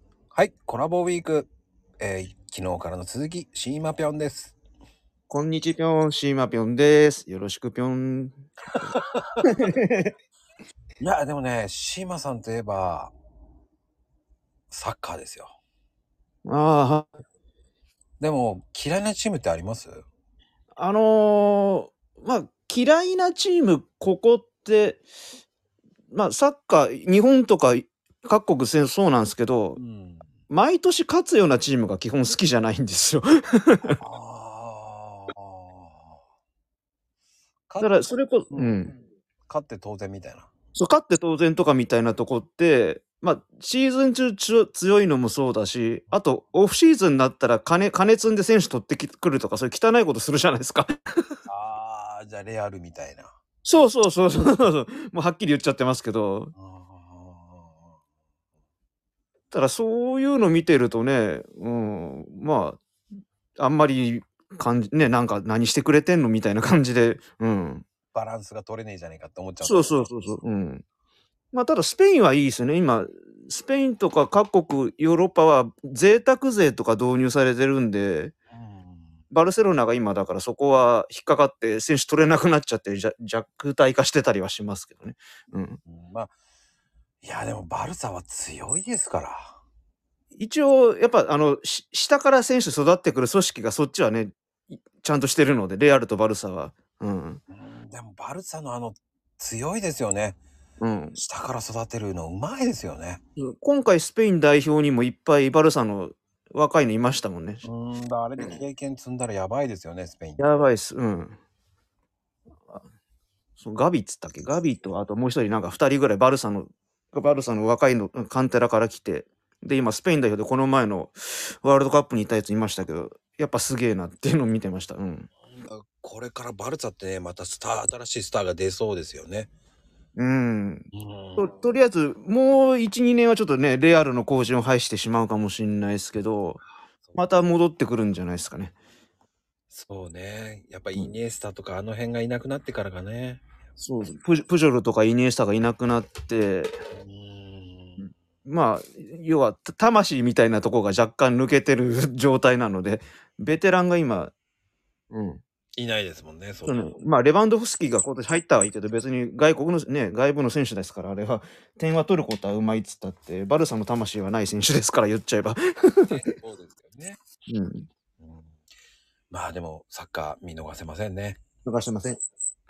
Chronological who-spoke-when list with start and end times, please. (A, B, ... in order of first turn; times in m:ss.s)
0:00.3-0:04.6 A
0:05.3-0:08.4 B
0:09.0-0:09.2 A
0:09.4-0:10.1 B
0:11.0-0:13.1 A
0:14.7-0:15.5 A
0:16.4-0:17.1 B
0:18.2-0:20.0 A
0:20.8-0:25.0 B
0:26.1-0:29.8 B
0:29.8-0:30.3 A
0:30.5-0:34.0 B
0:34.0-0:36.2 A
0:37.7-0:38.8 A
0:37.8-0:38.9 B
0:39.5-0:40.5 A
0:40.7-0:51.3 B
0:51.5-0:53.3 A
0:53.6-0:56.5 B
0:56.6-0:57.9 A
0:59.5-1:02.8 B
1:03.6-1:07.8 B
1:08.1-1:10.4 A
1:09.6-1:10.8 B
1:11.5-1:18.3 B
1:18.5-1:19.2 A
1:19.3-1:25.8 B
1:25.9-1:26.3 A
1:27.2-1:29.6 A
1:30.4-1:37.4 B
1:37.5-1:40.4 A
1:40.8-1:41.2 B
1:41.2-1:43.2 A
1:43.4-1:47.6 B
1:47.6-1:50.5 A
1:50.4-1:51.4 B
1:53.6-2:05.3 B
2:05.5-2:09.5 A
2:10.2-2:16.6 B
2:10.9-2:11.5 A
2:17.2-2:18.7 B
2:19.7-2:23.4 A
2:23.8-2:26.8 B
2:26.9-2:28.1 A
2:28.4-2:34.3 B
2:35.1-2:35.4 B
2:35.8-2:37.0 A
2:36.7-2:46.2 B
2:46.1-2:47.2 A
2:47.5-2:47.9 B
2:48.2-2:48.5 A
2:49.3-2:51.4 A
2:51.6-2:52.2 B